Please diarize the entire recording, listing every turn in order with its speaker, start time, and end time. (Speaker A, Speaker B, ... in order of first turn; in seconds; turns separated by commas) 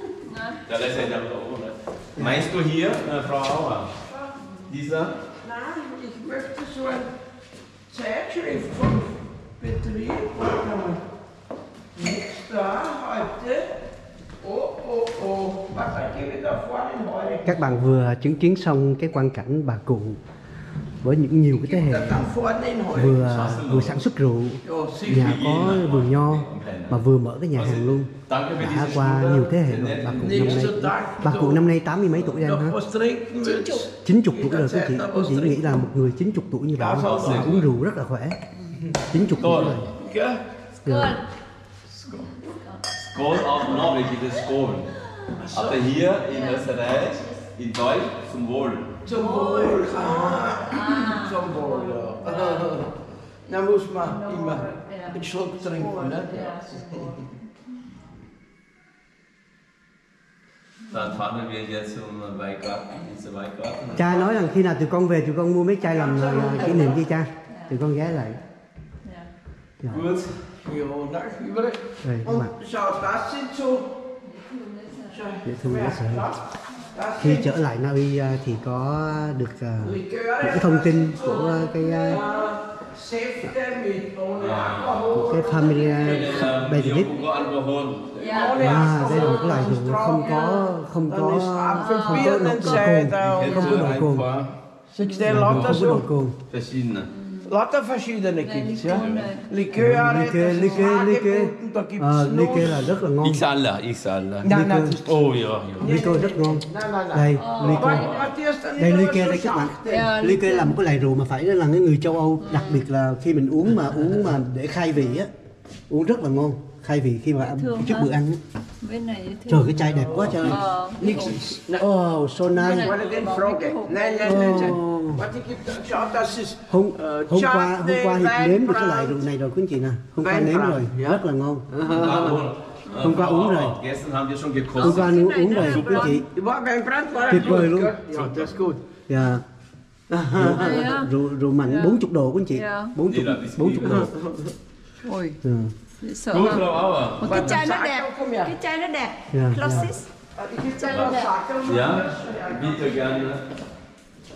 Speaker A: 0.2-0.6, Speaker B: 0.7-4.0, Speaker C: 2.1-2.5, Speaker D: 4.0-4.3, Speaker A: 4.4-4.7, Speaker B: 4.7-5.2, Speaker D: 5.4-7.1, Speaker D: 7.9-11.0, Speaker D: 11.9-13.7, Speaker D: 14.4-17.6, Speaker C: 17.4-20.2, Speaker C: 21.0-22.3, Speaker D: 21.5-23.4, Speaker C: 22.9-32.8, Speaker B: 23.1-24.0, Speaker D: 24.6-25.5, Speaker B: 25.1-30.7, Speaker D: 30.2-35.6, Speaker A: 33.4-33.9, Speaker C: 33.9-38.4, Speaker D: 36.8-37.5, Speaker B: 37.0-37.7, Speaker A: 38.6-38.9, Speaker C: 39.0-39.9, Speaker B: 39.4-39.8, Speaker D: 39.8-40.4, Speaker A: 40.8-41.2, Speaker C: 40.8-41.2, Speaker D: 41.9-42.5, Speaker A: 42.1-42.8, Speaker B: 43.0-44.9, Speaker A: 43.6-43.9, Speaker A: 44.9-45.4, Speaker D: 45.3-45.9, Speaker B: 45.5-49.0, Speaker A: 46.2-47.5, Speaker D: 49.0-52.9, Speaker A: 49.1-52.9, Speaker D: 53.5-57.2, Speaker A: 53.9-57.5, Speaker A: 60.8-61.2, Speaker B: 60.9-64.3, Speaker C: 63.9-68.4, Speaker D: 65.8-67.0, Speaker A: 67.5-67.8, Speaker A: 69.0-69.3, Speaker B: 69.9-70.5, Speaker D: 70.6-73.9, Speaker C: 72.0-72.5, Speaker A: 74.2-75.2, Speaker D: 75.1-76.4, Speaker C: 75.4-76.3, Speaker A: 76.7-77.0, Speaker D: 76.9-77.5, Speaker C: 77.2-82.2, Speaker D: 79.8-86.4, Speaker A: 81.2-82.5, Speaker B: 84.3-89.0, Speaker C: 85.1-87.1, Speaker A: 88.1-90.7, Speaker D: 88.2-93.9, Speaker C: 88.6-94.3, Speaker A: 91.8-93.0, Speaker B: 93.2-94.5, Speaker D: 94.9-96.1, Speaker A: 95.0-95.3, Speaker C: 95.2-96.4, Speaker B: 95.3-95.9, Speaker B: 96.5-97.1, Speaker A: 97.1-97.5, Speaker D: 97.4-102.9, Speaker A: 98.4-99.7, Speaker B: 98.9-99.3, Speaker C: 99.7-103.4, Speaker B: 103.2-106.0, Speaker D: 104.4-110.1, Speaker C: 104.4-105.0, Speaker C: 105.8-108.1, Speaker A: 107.4-108.1, Speaker B: 107.6-108.3, Speaker C: 108.7-115.3, Speaker A: 109.8-110.8, Speaker A: 112.4-112.8, Speaker C: 115.9-118.4, Speaker A: 117.4-118.1, Speaker A: 118.8-121.4, Speaker C: 119.5-123.0, Speaker D: 119.9-121.8, Speaker B: 120.1-120.6, Speaker A: 122.6-124.8, Speaker D: 122.6-129.2, Speaker C: 124.2-125.2, Speaker A: 125.9-126.3, Speaker C: 126.7-131.7, Speaker D: 130.2-132.4, Speaker B: 131.8-136.1, Speaker A: 132.8-133.2, Speaker C: 133.0-133.8, Speaker A: 134.8-136.2, Speaker C: 134.8-136.2, Speaker D: 135.5-138.8, Speaker C: 137.3-138.0, Speaker B: 138.1-138.5, Speaker C: 139.1-139.4, Speaker D: 140.1-140.9, Speaker C: 140.3-144.1, Speaker A: 140.5-142.0, Speaker A: 142.5-143.0, Speaker B: 143.1-144.1, Speaker D: 143.8-144.5, Speaker A: 145.0-145.4, Speaker C: 145.4-145.7, Speaker A: 146.0-150.1, Speaker B: 146.3-147.6, Speaker D: 147.2-148.5, Speaker C: 149.3-149.9, Speaker D: 149.7-153.3, Speaker A: 150.8-151.3, Speaker B: 150.9-153.4